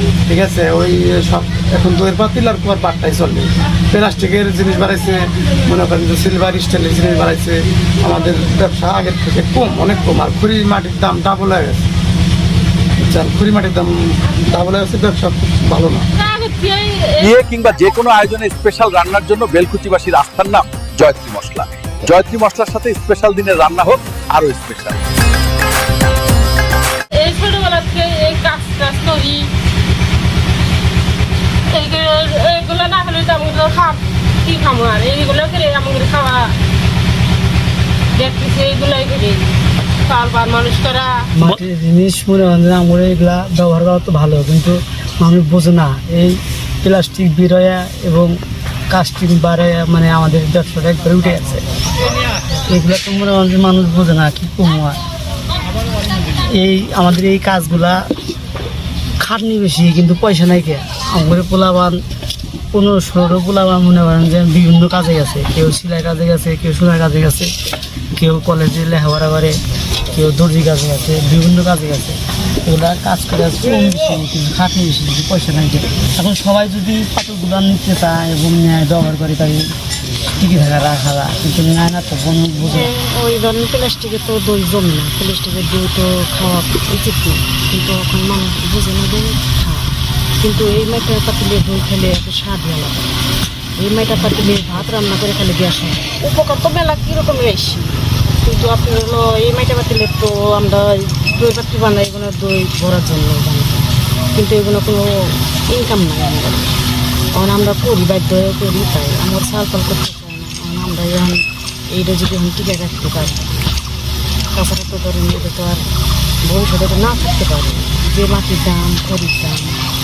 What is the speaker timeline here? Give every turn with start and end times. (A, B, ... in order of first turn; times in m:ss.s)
0:00.3-0:11.8 A
0:13.1-0:16.1 A
0:16.2-0:17.3 B
0:17.2-0:25.0 C
0:27.2-0:29.5 B
0:31.7-0:36.5 B
0:38.2-0:39.5 B
0:40.1-0:41.3 B
0:41.4-0:48.4 D
0:48.9-0:51.7 D
0:52.6-0:55.0 D
0:56.5-0:58.0 D
0:59.2-1:02.0 D
1:02.7-1:07.5 D
1:08.2-1:09.6 D
1:10.1-1:19.7 D
1:20.3-1:22.8 D
1:22.6-1:33.1 E
1:33.8-1:46.7 E
1:47.3-1:53.7 E
1:54.5-1:55.9 E
1:56.4-1:59.8 E